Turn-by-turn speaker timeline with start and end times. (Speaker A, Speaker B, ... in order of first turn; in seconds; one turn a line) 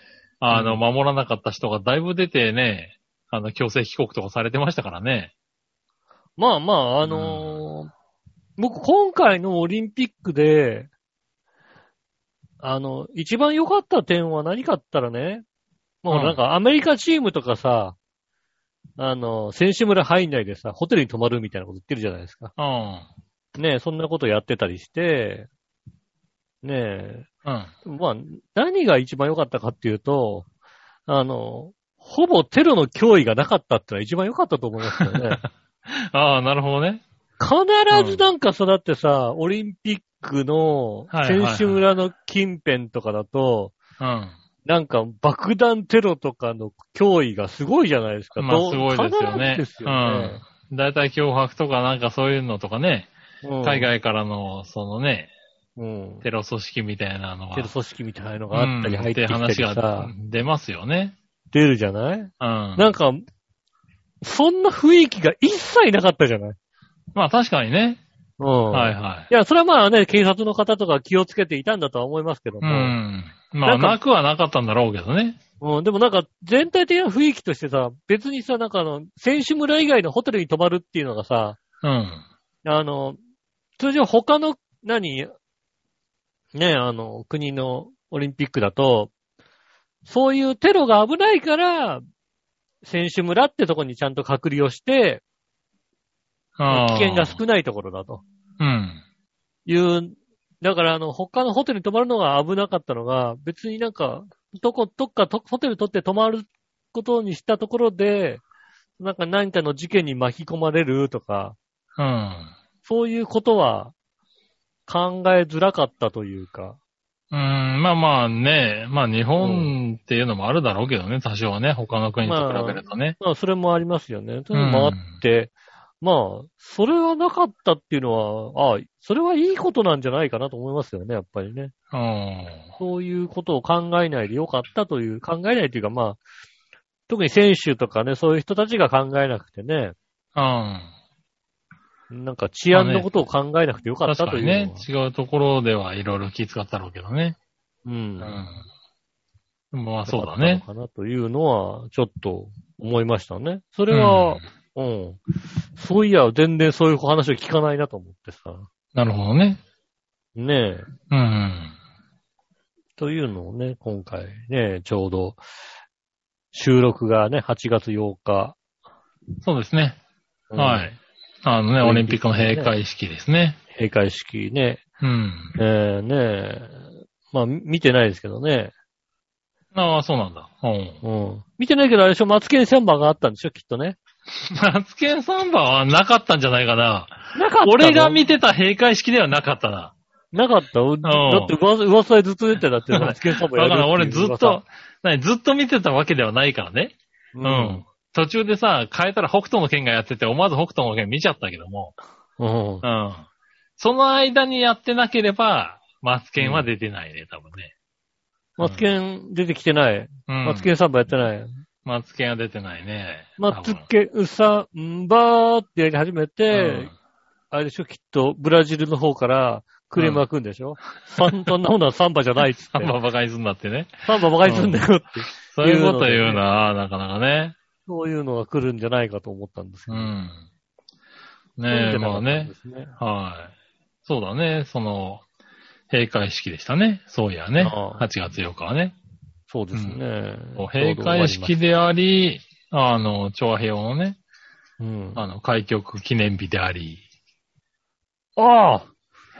Speaker A: 0.4-5.3
Speaker B: 0.5-0.8
Speaker B: 6.4-7.9
Speaker A: 7.0-7.6
Speaker B: 8.6-10.9
Speaker B: 12.6-15.4
Speaker B: 16.0-17.9
Speaker A: 16.1-16.4
Speaker B: 19.0-22.5
Speaker A: 22.6-23.1
Speaker B: 23.6-25.5
Speaker B: 26.6-27.3
Speaker A: 27.4-27.7
Speaker B: 27.9-30.5
Speaker B: 31.1-35.4
Speaker A: 35.0-37.0
Speaker B: 37.4-43.8
Speaker A: 37.9-38.2
Speaker A: 41.1-41.8
Speaker A: 44.0-44.4
Speaker B: 44.6-50.4
Speaker A: 48.4-53.1
Speaker B: 53.4-53.9
Speaker A: 53.6-55.3
Speaker B: 55.8-56.2
Speaker A: 56.2-57.7
Speaker B: 57.5-60.1
Speaker A: 58.5-61.1
Speaker B: 61.5-63.2
Speaker A: 62.4-62.9
Speaker B: 64.2-66.6
Speaker A: 67.2-68.0
Speaker B: 68.4-73.0
Speaker A: 68.7-69.3
Speaker A: 72.6-75.4
Speaker B: 73.7-74.0
Speaker B: 75.6-81.6
Speaker A: 81.8-82.2
Speaker B: 82.7-83.2
Speaker B: 83.8-85.3
Speaker B: 86.5-89.1
Speaker B: 90.1-92.0
Speaker B: 92.8-95.2
Speaker A: 96.6-97.4
Speaker B: 96.7-98.2
Speaker A: 98.6-99.0
Speaker B: 99.7-108.4
Speaker B: 109.0-111.6
Speaker A: 112.0-112.5
Speaker B: 112.8-113.9
Speaker B: 114.9-116.8
Speaker A: 117.3-123.2
Speaker B: 119.4-119.7
Speaker B: 122.2-131.7
Speaker A: 124.5-125.1
Speaker A: 131.9-132.7
Speaker B: 132.8-136.2
Speaker B: 137.1-139.9
Speaker A: 140.3-140.9
Speaker B: 142.1-144.8
Speaker A: 142.7-143.1
Speaker A: 144.1-147.4
Speaker B: 147.8-148.4
Speaker A: 148.2-148.6
Speaker A: 149.7-150.6
Speaker B: 150.1-155.2
Speaker A: 153.9-154.4
Speaker B: 155.8-158.7
Speaker A: 158.9-159.6
Speaker B: 160.4-160.9
Speaker A: 161.1-161.7
Speaker B: 163.0-165.4
Speaker B: 166.5-168.6
Speaker A: 169.4-170.0
Speaker B: 170.5-170.9
Speaker A: 170.6-173.6
Speaker B: 171.8-172.7
Speaker B: 173.7-174.8
Speaker A: 175.0-175.6
Speaker B: 175.6-178.7
Speaker A: 179.7-181.0
Speaker B: 181.0-184.0
Speaker A: 184.4-189.9
Speaker B: 187.3-188.2
Speaker B: 190.3-194.6
Speaker A: 191.1-191.5
Speaker A: 192.9-202.0
Speaker B: 197.3-197.8
Speaker B: 202.4-202.8
Speaker A: 202.8-203.3
Speaker A: 203.8-207.7
Speaker B: 206.4-206.7
Speaker A: 208.6-208.8
Speaker B: 208.6-211.5
Speaker A: 210.3-210.7
Speaker A: 211.9-213.9
Speaker B: 213.4-216.9
Speaker A: 216.5-216.9
Speaker B: 217.5-222.9
Speaker A: 220.0-220.2
Speaker A: 221.2-221.5
Speaker A: 222.7-224.8
Speaker B: 224.1-226.4
Speaker A: 225.5-227.6
Speaker B: 227.9-230.1
Speaker A: 229.9-230.4
Speaker A: 231.6-233.5
Speaker B: 231.7-232.9
Speaker A: 234.1-235.2
Speaker A: 235.9-239.0
Speaker B: 237.6-238.1
Speaker B: 239.5-241.5
Speaker A: 239.7-240.0
Speaker A: 240.6-244.2
Speaker B: 244.8-245.2
Speaker A: 245.2-247.0
Speaker B: 248.4-248.9